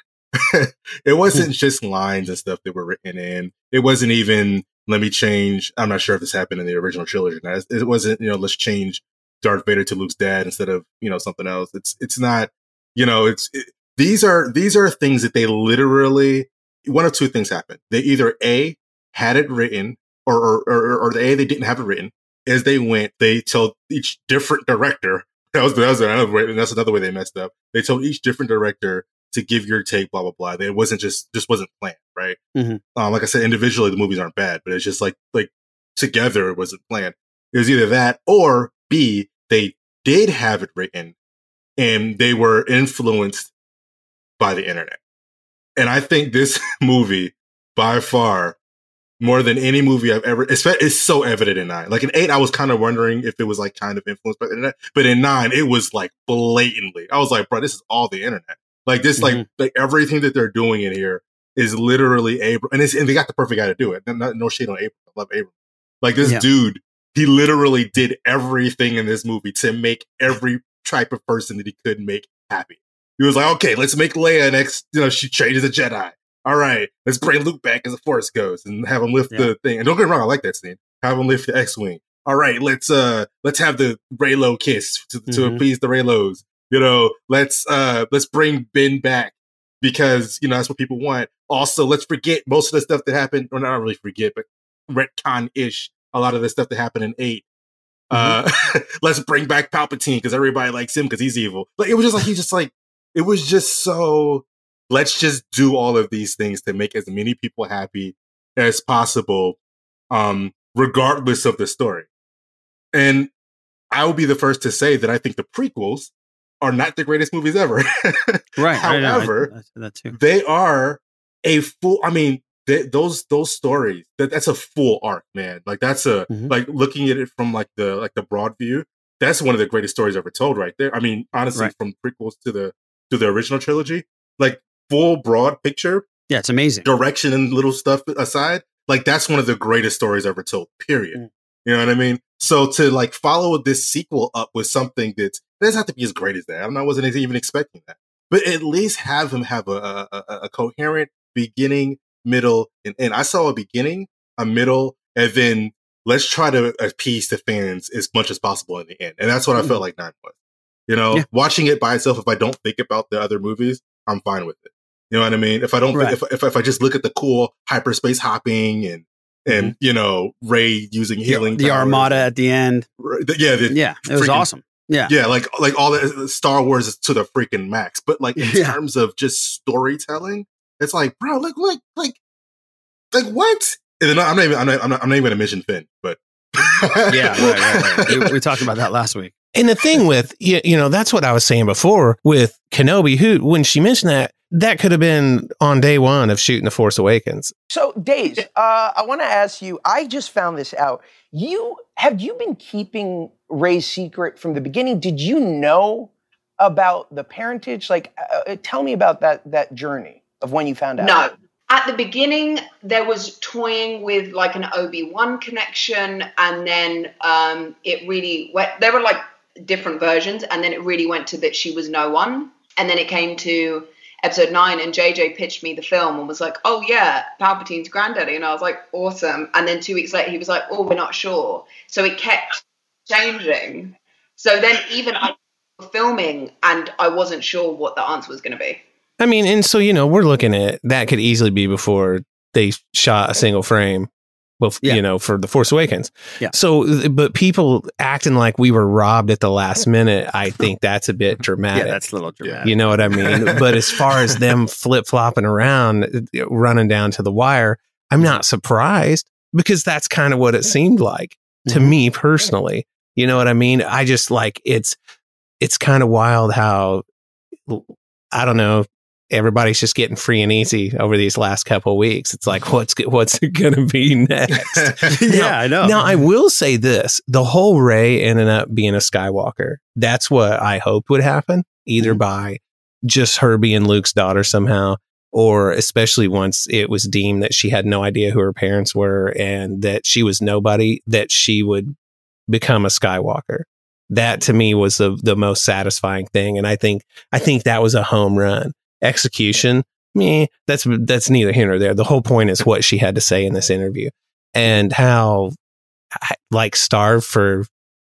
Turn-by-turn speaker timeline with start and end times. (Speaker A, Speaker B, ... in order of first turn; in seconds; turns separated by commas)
Speaker A: 0.4-32.4, Speaker B: 32.5-32.8, Speaker A: 33.0-41.1, Speaker A: 41.8-43.5, Speaker A: 44.4-45.0, Speaker A: 45.8-48.6, Speaker A: 49.2-65.5, Speaker B: 59.2-59.4, Speaker A: 66.0-97.5, Speaker B: 85.3-85.6, Speaker A: 98.1-109.6, Speaker B: 98.1-98.4, Speaker A: 110.1-112.1, Speaker A: 112.9-113.3, Speaker A: 113.9-119.5, Speaker B: 118.6-120.1, Speaker A: 120.1-136.1, Speaker B: 136.3-136.9, Speaker A: 136.8-160.3, Speaker B: 159.6-159.8, Speaker A: 160.9-172.3, Speaker B: 169.5-169.7, Speaker B: 171.2-172.9, Speaker A: 173.0-174.5, Speaker B: 173.7-175.1, Speaker A: 175.1-182.2, Speaker B: 178.4-178.8, Speaker A: 183.1-188.3, Speaker B: 187.1-189.3, Speaker C: 189.6-197.5, Speaker D: 197.7-211.3, Speaker E: 211.0-238.8, Speaker C: 239.2-244.1, Speaker C: 244.6-252.0, Speaker B: 251.7-252.8, Speaker A: 252.4-253.7, Speaker C: 252.6-265.0, Speaker B: 261.6-261.9, Speaker C: 265.6-267.0, Speaker C: 267.7-291.9, Speaker A: 274.7-275.0, Speaker B: 275.1-276.0, Speaker C: 292.5-305.5, Speaker C: 306.1-307.7